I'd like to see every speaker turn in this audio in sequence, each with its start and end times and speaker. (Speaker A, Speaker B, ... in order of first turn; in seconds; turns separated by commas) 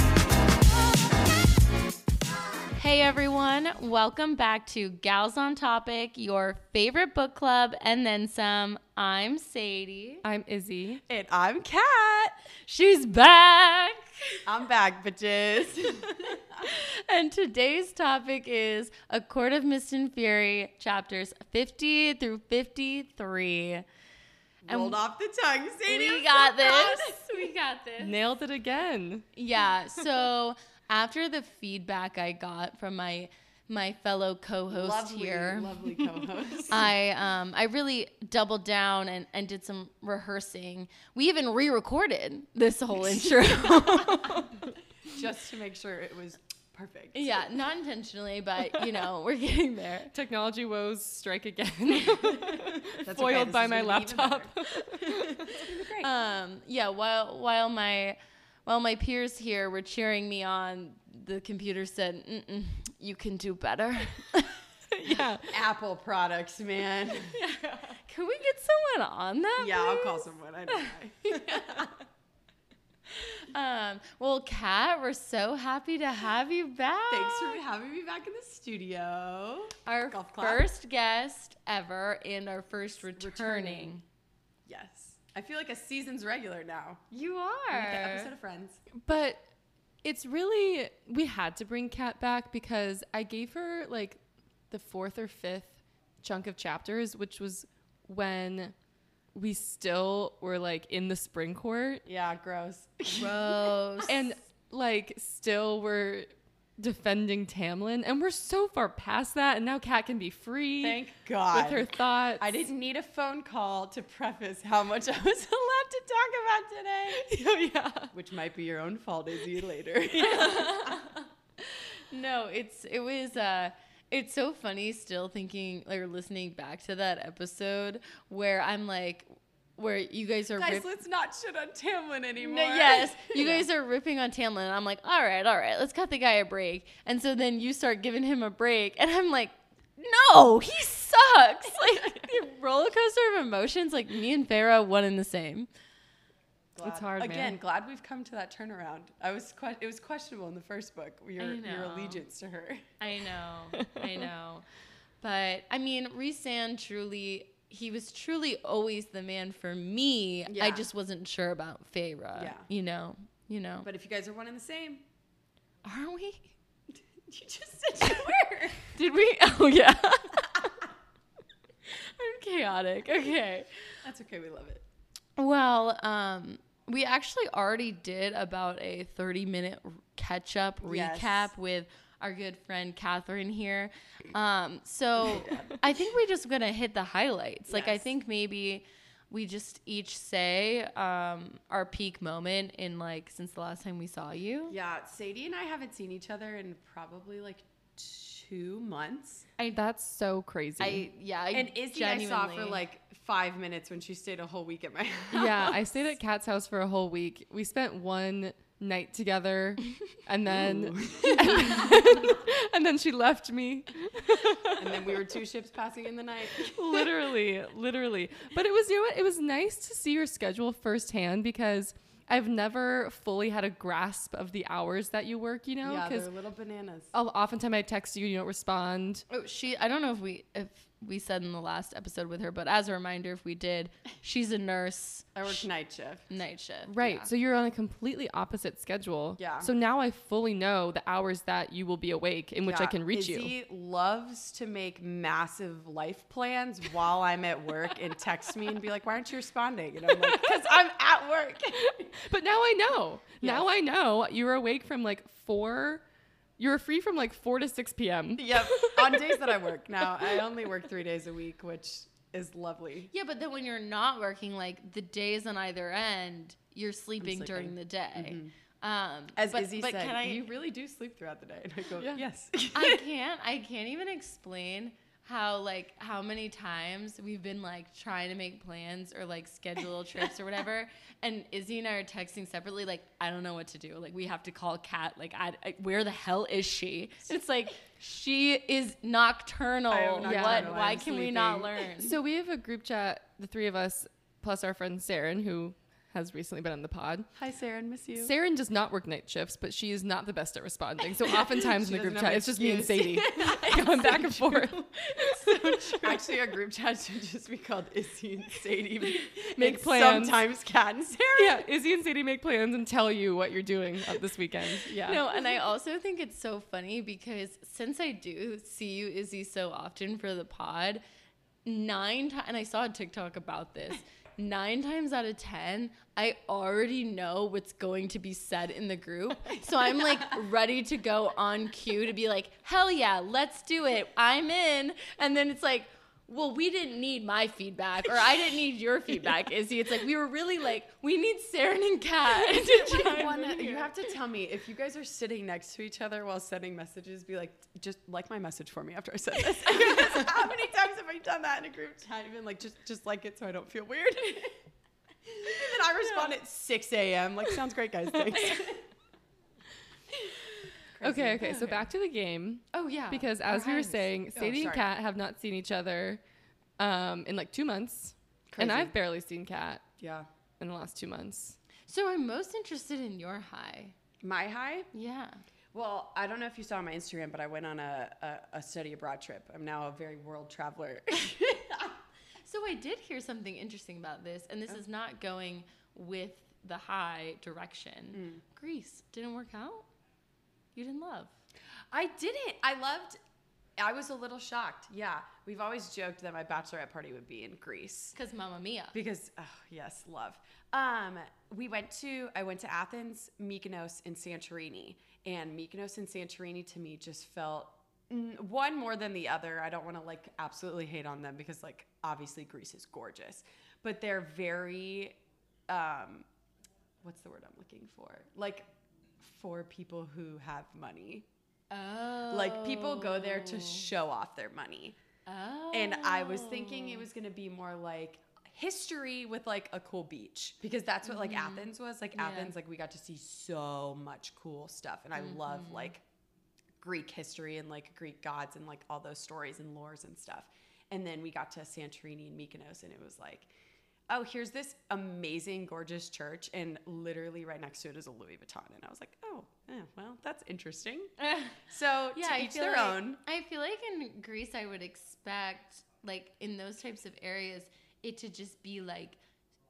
Speaker A: 2.8-10.2, Speaker B: 10.2-11.0, Speaker C: 11.1-12.4, Speaker A: 12.7-14.4, Speaker C: 14.5-16.7, Speaker A: 16.6-23.9, Speaker C: 24.6-27.2, Speaker A: 24.7-25.0, Speaker A: 25.9-28.2, Speaker B: 28.0-29.3, Speaker A: 29.4-35.9, Speaker C: 34.7-36.9, Speaker A: 36.7-44.5, Speaker C: 45.1-47.4, Speaker A: 47.1-50.1, Speaker B: 50.1-55.6, Speaker C: 52.4-56.1, Speaker A: 55.6-64.6, Speaker B: 64.9-65.6, Speaker C: 65.5-67.4, Speaker A: 67.4-71.9, Speaker C: 69.6-72.0, Speaker A: 73.2-77.6, Speaker C: 77.1-80.7, Speaker A: 79.9-84.0, Speaker C: 83.2-84.0, Speaker C: 84.7-87.1, Speaker A: 87.1-88.3, Speaker C: 87.7-88.8, Speaker B: 88.9-89.4, Speaker B: 90.0-94.2, Speaker B: 94.7-98.7, Speaker B: 99.3-102.0, Speaker C: 102.1-104.0, Speaker A: 103.2-104.2, Speaker B: 104.1-106.3, Speaker B: 106.8-112.6, Speaker C: 110.8-117.3, Speaker B: 117.1-118.1, Speaker C: 118.1-121.2, Speaker A: 120.2-130.9, Speaker C: 130.5-133.7, Speaker A: 132.4-145.7, Speaker C: 146.8-152.9, Speaker B: 146.8-147.6, Speaker A: 151.4-152.2, Speaker A: 153.0-154.7, Speaker B: 153.7-154.3, Speaker A: 155.2-163.9, Speaker C: 160.5-160.8, Speaker C: 162.4-162.7, Speaker C: 163.8-165.1, Speaker A: 165.8-166.5, Speaker C: 166.9-168.9, Speaker A: 168.8-170.7, Speaker A: 171.9-173.7, Speaker C: 174.0-174.8, Speaker A: 175.4-194.8, Speaker C: 180.8-181.5, Speaker C: 185.2-185.8, Speaker C: 187.7-188.1, Speaker C: 194.7-199.5, Speaker B: 199.7-201.1, Speaker A: 200.8-202.8, Speaker C: 201.5-205.8, Speaker B: 205.3-215.3, Speaker C: 210.5-211.9, Speaker C: 214.8-217.1, Speaker B: 216.6-226.3, Speaker C: 225.8-227.1, Speaker B: 227.1-229.2, Speaker A: 229.3-235.6, Speaker C: 235.3-236.2, Speaker A: 236.3-237.3, Speaker B: 236.9-243.5, Speaker C: 239.4-239.7, Speaker C: 242.6-251.9, Speaker B: 250.1-250.5, Speaker B: 251.8-256.0, Speaker C: 253.4-253.7, Speaker B: 256.6-259.5, Speaker C: 258.4-263.1, Speaker A: 263.1-270.5, Speaker C: 267.2-268.5, Speaker C: 269.4-273.0, Speaker A: 272.7-292.2, Speaker C: 289.9-291.9, Speaker B: 290.2-290.8, Speaker B: 292.0-297.3, Speaker C: 297.4-298.3, Speaker B: 298.2-306.3, Speaker C: 301.3-304.7, Speaker A: 303.4-304.0, Speaker A: 304.7-306.0, Speaker C: 306.0-311.7, Speaker B: 309.6-310.4, Speaker B: 311.4-315.2, Speaker A: 315.0-321.0, Speaker A: 321.6-343.9, Speaker C: 342.9-354.6, Speaker C: 355.2-358.8, Speaker C: 361.0-361.8, Speaker B: 361.0-366.2, Speaker A: 361.4-361.8, Speaker A: 362.7-364.1, Speaker C: 364.3-364.9, Speaker B: 366.8-369.9, Speaker C: 368.5-368.9, Speaker C: 370.0-370.3, Speaker B: 370.6-371.6, Speaker A: 371.9-373.9, Speaker C: 374.2-374.9, Speaker A: 374.9-375.4, Speaker C: 375.7-382.0, Speaker A: 382.4-389.9, Speaker C: 388.1-388.4, Speaker A: 390.8-391.3, Speaker C: 391.9-393.2, Speaker C: 393.8-398.2, Speaker A: 398.1-399.0, Speaker C: 398.9-415.2, Speaker C: 415.7-416.3, Speaker C: 417.0-418.7, Speaker C: 419.2-421.3, Speaker A: 421.7-423.9, Speaker C: 422.3-425.0, Speaker A: 425.3-427.1, Speaker C: 425.7-436.0, Speaker A: 431.1-432.5, Speaker A: 435.2-435.9, Speaker C: 436.8-443.5, Speaker C: 444.1-453.2, Speaker A: 451.2-451.6, Speaker A: 452.1-459.2